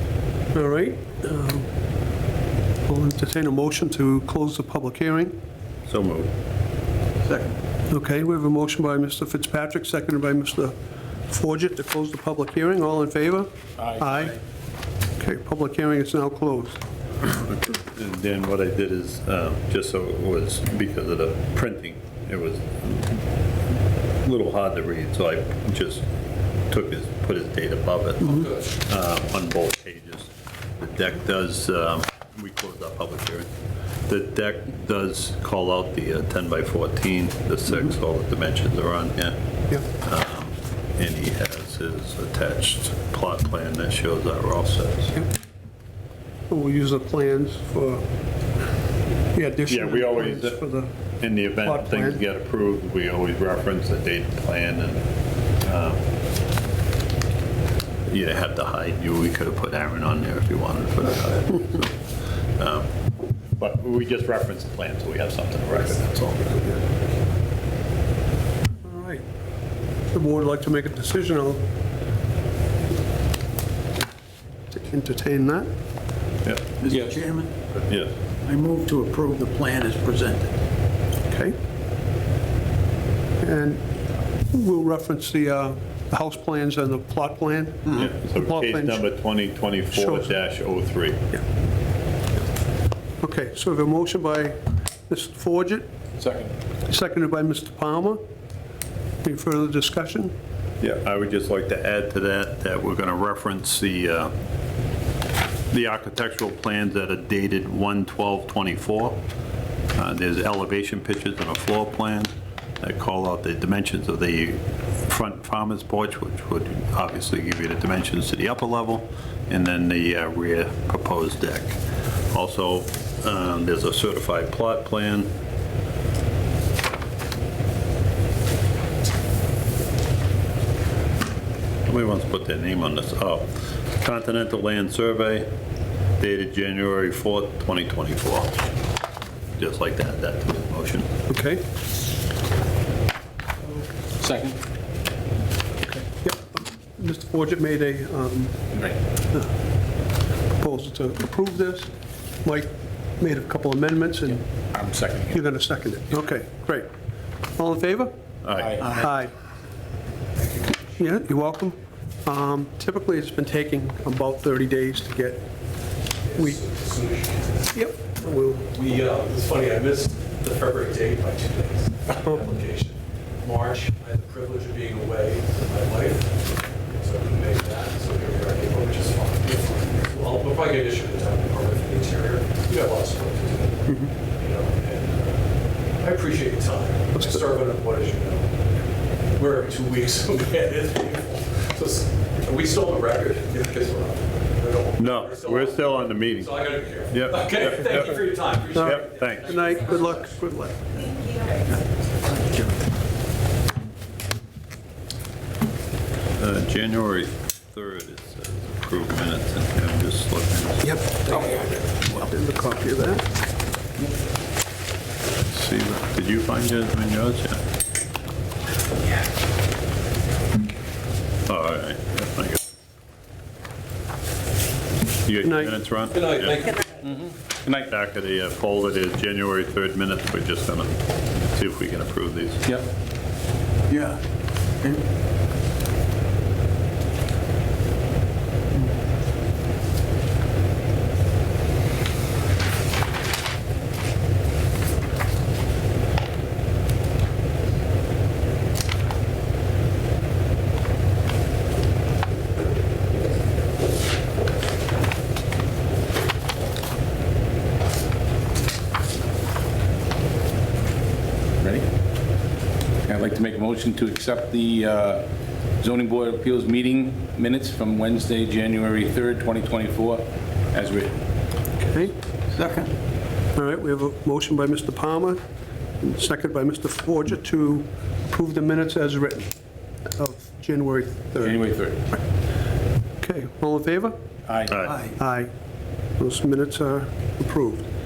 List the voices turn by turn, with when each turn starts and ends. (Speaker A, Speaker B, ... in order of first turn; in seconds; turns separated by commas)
Speaker A: 0.5-1.7, Speaker A: 2.9-5.3, Speaker B: 5.9-6.3, Speaker C: 7.2-7.6, Speaker A: 7.9-10.7, Speaker A: 11.3-14.4, Speaker D: 13.8-14.2, Speaker A: 15.2-16.8, Speaker B: 17.3-23.2, Speaker B: 24.2-26.0, Speaker B: 26.7-33.5, Speaker B: 34.1-45.1, Speaker A: 46.5-48.0, Speaker A: 49.3-50.9, Speaker B: 49.7-50.6, Speaker B: 51.2-55.0, Speaker A: 51.6-52.2, Speaker B: 55.6-56.0, Speaker B: 58.1-61.9, Speaker B: 62.6-62.9, Speaker B: 63.6-66.8, Speaker A: 68.8-69.2, Speaker A: 70.1-71.6, Speaker A: 74.7-75.7, Speaker C: 76.8-77.6, Speaker B: 77.9-78.1, Speaker C: 78.4-80.5, Speaker A: 81.3-81.5, Speaker A: 83.4-83.8, Speaker A: 84.5-89.0, Speaker B: 87.9-91.2, Speaker A: 89.9-90.3, Speaker A: 93.2-95.9, Speaker D: 96.2-96.5, Speaker A: 96.9-98.2, Speaker A: 99.2-100.3, Speaker B: 100.8-104.3, Speaker B: 105.7-109.2, Speaker B: 109.9-121.8, Speaker B: 122.3-125.3, Speaker B: 131.9-135.5, Speaker B: 136.2-138.6, Speaker B: 139.6-141.1, Speaker A: 141.3-141.6, Speaker D: 144.2-144.6, Speaker A: 145.8-148.7, Speaker A: 150.5-151.9, Speaker A: 152.4-154.4, Speaker D: 154.7-155.4, Speaker A: 155.3-156.9, Speaker A: 157.6-158.1, Speaker B: 158.4-158.8, Speaker D: 158.5-159.0, Speaker A: 158.9-159.3, Speaker E: 160.3-160.9, Speaker A: 161.0-165.5, Speaker E: 166.2-167.8, Speaker A: 167.7-168.7, Speaker E: 168.7-188.5, Speaker E: 189.3-200.1, Speaker B: 195.0-198.2, Speaker B: 198.7-199.7, Speaker A: 198.7-201.3, Speaker B: 206.4-211.3, Speaker A: 210.8-213.2, Speaker C: 211.3-211.7, Speaker B: 215.4-217.6, Speaker B: 221.5-222.6, Speaker B: 225.2-226.7, Speaker A: 225.4-225.8, Speaker E: 226.1-227.0, Speaker D: 227.0-227.9, Speaker B: 227.8-232.6, Speaker C: 233.9-234.2, Speaker D: 261.6-261.9, Speaker D: 263.1-265.3, Speaker D: 265.8-271.1, Speaker A: 271.8-272.1, Speaker C: 272.6-272.9, Speaker A: 273.5-275.4, Speaker A: 276.0-279.5, Speaker A: 280.1-281.6, Speaker D: 281.4-282.1, Speaker A: 283.2-284.1, Speaker D: 284.5-284.8, Speaker B: 284.7-284.9, Speaker A: 285.0-285.5, Speaker A: 286.2-287.9